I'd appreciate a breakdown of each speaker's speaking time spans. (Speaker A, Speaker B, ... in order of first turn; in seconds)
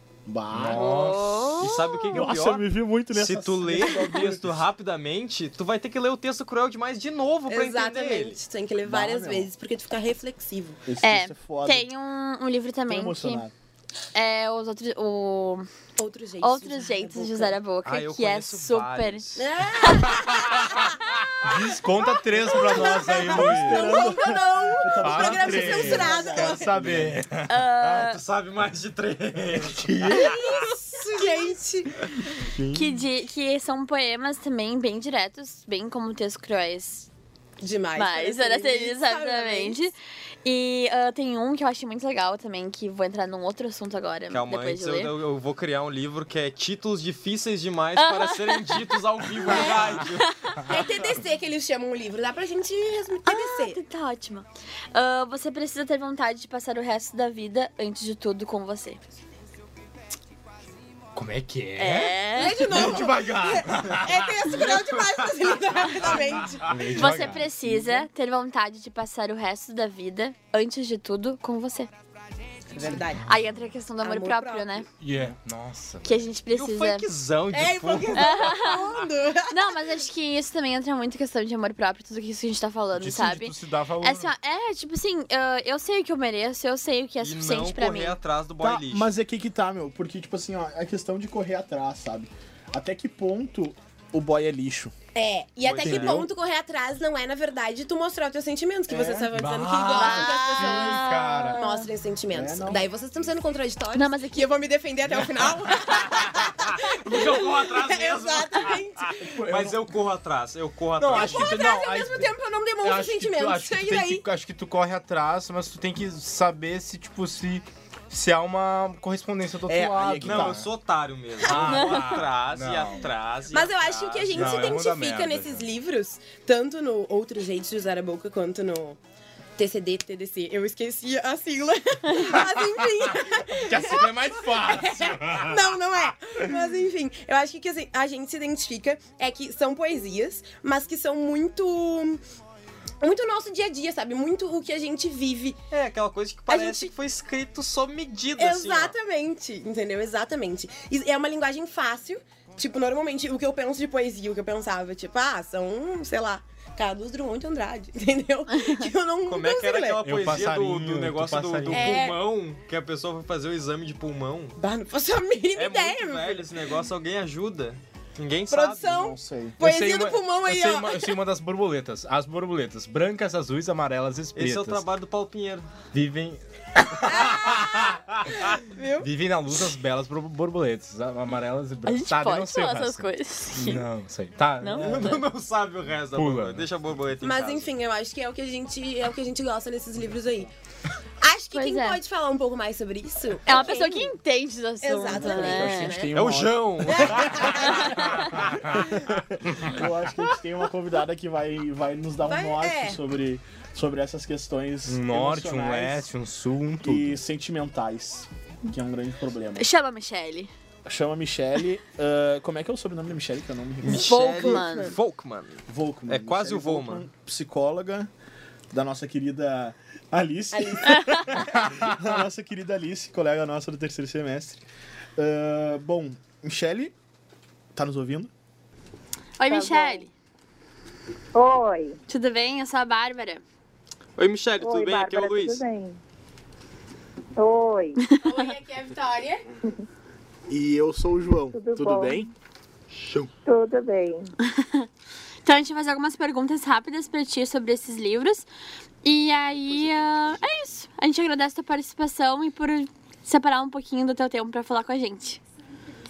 Speaker A: 0.2-1.0, 2.1-4.6, 8.8-9.5, 10.8-11.9, 12.9-13.5, 23.1-27.2, 32.6-32.9, 88.6-94.9, 95.8-96.2, 98.9-99.3, 102.3-102.9, 109.4-109.7, 119.7-120.7, 168.8-169.6, 195.2-206.1, 206.8-209.7, 210.8-214.2, 215.7-218.1, 218.7-224.6, 225.2-226.9, 227.7-228.3, 240.5-242.3
Speaker B: 0.5-1.6, 20.1-20.7, 21.4-24.2, 25.0-27.9, 29.6-30.6, 61.1-64.7, 66.1-67.9, 75.0-76.2, 82.9-84.3, 99.3-101.6, 111.0-120.7, 121.4-123.1, 124.3-125.7, 133.0-135.7, 160.0-162.0, 169.6-174.8, 175.9-185.2, 186.1-186.7, 204.9-207.2, 221.5-221.9
Speaker C: 0.7-2.3, 11.0-13.4, 14.1-15.7, 16.4-19.2, 27.5-28.2, 32.7-37.1, 38.0-45.1, 48.0-48.8, 50.0-50.6, 53.2-59.0, 61.8-62.9, 66.9-71.9, 73.2-74.9, 76.0-77.1, 78.1-78.9, 79.5-88.2, 99.9-101.9, 103.9-104.5, 158.6-158.8, 181.8-183.9, 184.6-185.2, 191.5-192.0, 193.4-196.0, 209.6-210.5, 214.1-214.9, 229.4-230.1, 232.1-233.4, 244.4-244.9, 245.4-248.5, 249.0-255.4
Speaker D: 1.6-8.4, 17.8-19.5, 27.9-30.3, 44.3-50.6, 76.5-78.8, 87.2-89.1, 95.6-96.2, 106.9-111.6, 120.2-124.8, 145.7-148.9, 159.2-164.6, 165.5-169.1, 174.3-175.7, 184.8-187.7, 196.1-197.9, 213.8-217.1, 234.2-235.6
Speaker E: 7.5-10.8, 16.0-17.6, 19.4-20.9, 22.2-26.9, 30.1-32.0, 37.6-39.8, 49.5-50.0, 50.7-53.8, 62.4-66.8, 72.7-73.3, 74.0-74.8, 77.5-79.8, 95.1-101.0, 101.6-109.4, 111.1-114.2, 121.5-121.7, 123.5-129.0, 129.6-142.2, 143.0-145.6, 146.5-146.9, 148.4-160.1, 161.7-162.2, 164.6-166.5, 168.5-171.2, 177.1-177.9, 178.5-179.1, 187.2-190.5, 191.2-194.1, 194.8-196.2, 196.9-198.1, 198.7-199.0, 202.2-203.0, 214.4-214.9, 220.5-221.1, 238.2-239.4
Speaker F: 229.5-230.1, 231.3-232.0, 234.6-236.0, 237.3-238.0, 241.5-242.3, 243.4-244.3